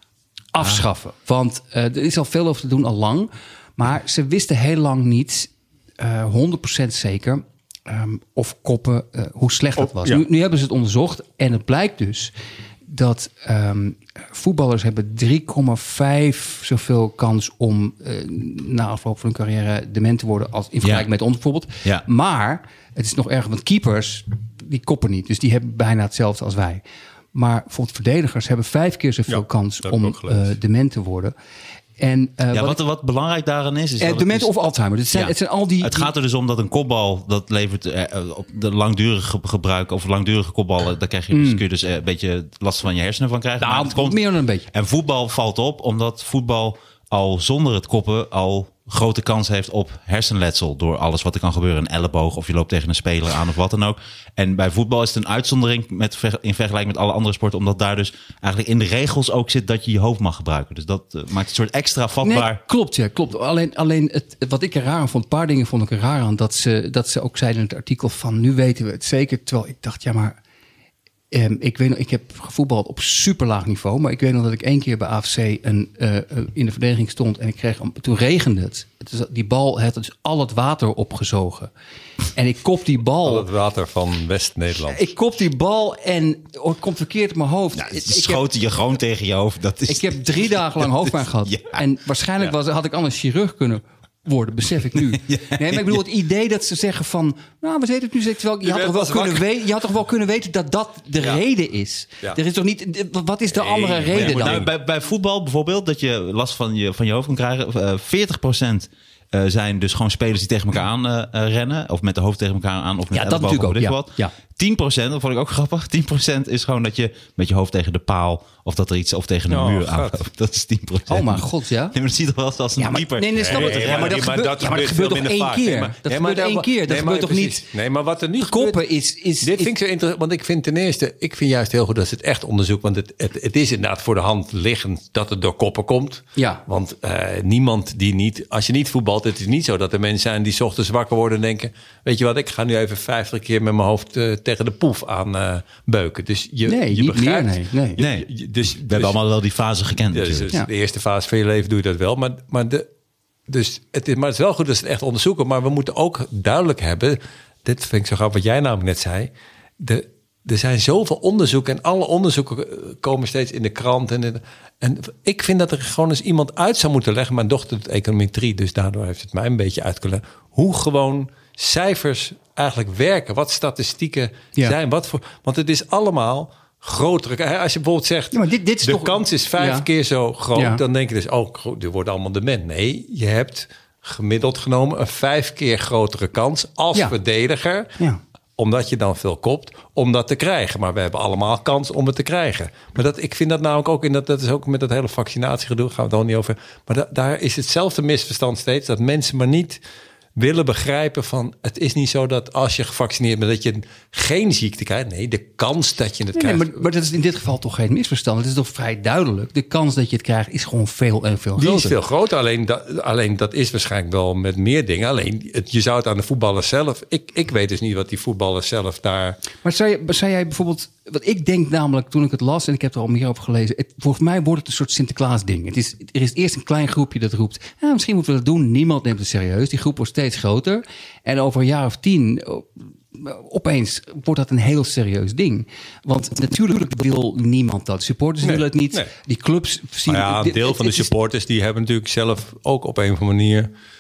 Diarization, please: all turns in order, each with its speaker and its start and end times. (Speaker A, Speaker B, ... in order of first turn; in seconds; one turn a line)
Speaker A: 0.5-12.3
Speaker B: 9.8-10.2
Speaker A: 12.9-26.8
Speaker A: 27.3-31.3
Speaker B: 29.3-30.5
Speaker A: 32.0-32.8
Speaker C: 32.5-34.5
Speaker A: 34.0-36.1
Speaker C: 35.1-62.6
Speaker A: 41.3-41.6
Speaker A: 43.6-44.7
Speaker A: 62.2-70.4
Speaker A: 71.3-81.7
Speaker A: 82.3-83.5
Speaker B: 83.2-85.0
Speaker A: 84.9-88.5
Speaker C: 87.8-91.8
Speaker A: 89.9-104.7
Speaker C: 95.1-96.0
Speaker B: 98.6-99.5
Speaker B: 103.5-104.7
Speaker C: 104.1-124.3
Speaker A: 113.1-114.3
Speaker B: 119.5-120.2
Speaker A: 121.1-122.0
Speaker A: 122.8-127.7
Speaker B: 123.4-128.8
Speaker A: 128.4-129.7
Speaker B: 129.4-149.2
Speaker A: 136.4-136.7
Speaker A: 146.7-148.0
Speaker C: 148.0-150.5
Speaker B: 150.1-152.9
Speaker B: 153.5-187.9
Speaker A: 178.3-179.9
Speaker A: 180.6-180.8
Speaker B: 188.6-199.8
Speaker B: 200.4-206.8
Speaker A: 206.3-212.0
Speaker B: 211.6-219.4
Speaker A: 219.6-241.1
Speaker B: 238.4-239.1
Speaker B: 240.1-243.7